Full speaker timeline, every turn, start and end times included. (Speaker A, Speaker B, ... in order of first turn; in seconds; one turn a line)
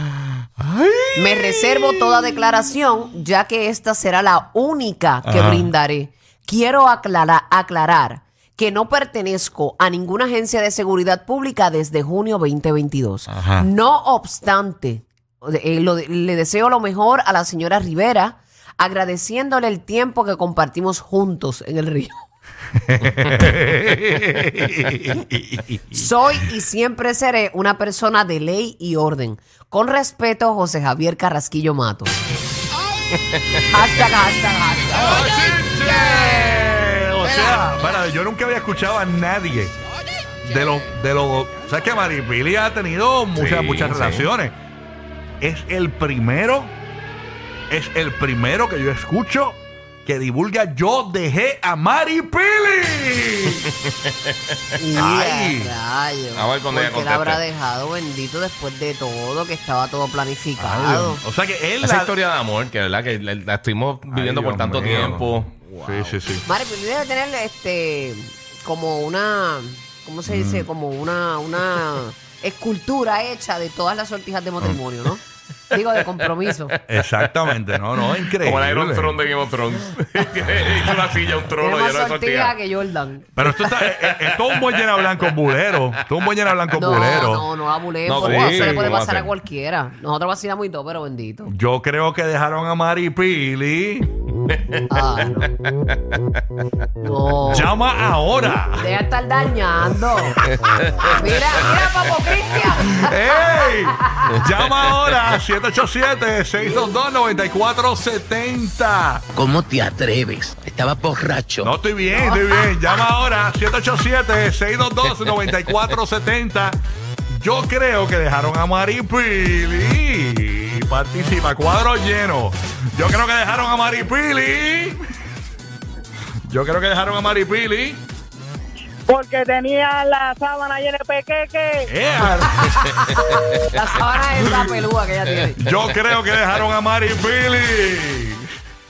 Speaker A: 0.6-2.2
Speaker B: 1.1-22.1
Speaker A: 5.2-5.7
Speaker A: 13.3-13.7
Speaker A: 22.9-26.1
Speaker B: 25.9-32.2
Speaker B: 33.7-35.2
Speaker A: 34.9-39.7
Speaker A: 40.4-44.5
Speaker C: 43.3-44.3
Speaker A: 45.4-46.7
Speaker A: 47.7-53.7
Speaker C: 53.9-54.1
Speaker B: 54.8-61.2
Speaker A: 54.9-55.7
Speaker C: 56.3-57.4
Speaker A: 60.6-62.1
Speaker C: 61.8-66.2
Speaker A: 64.1-66.4
Speaker B: 64.8-65.1
Speaker B: 66.4-76.8
Speaker A: 70.2-70.7
Speaker A: 76.9-79.2
Speaker C: 77.9-82.5
Speaker B: 81.5-83.3
Speaker A: 83.3-87.5
Speaker C: 83.5-85.9
Speaker B: 86.7-91.5
Speaker C: 88.0-89.3
Speaker A: 88.2-89.0
Speaker A: 91.4-94.1
Speaker C: 94.5-94.8
Speaker B: 94.9-95.5
Speaker B: 97.0-97.7
Speaker A: 97.5-98.9
Speaker B: 98.7-100.4
Speaker C: 100.5-101.5
Speaker B: 101.0-104.3
Speaker A: 102.9-109.2
Speaker C: 104.3-105.4
Speaker D: 109.3-111.7
Speaker A: 111.6-125.0
Speaker B: 112.1-112.6
Speaker A: 126.5-128.0
Speaker E: 129.1-131.9
Speaker A: 131.9-133.3
Speaker B: 133.4-135.6
Speaker A: 134.4-134.7
Speaker A: 135.6-138.5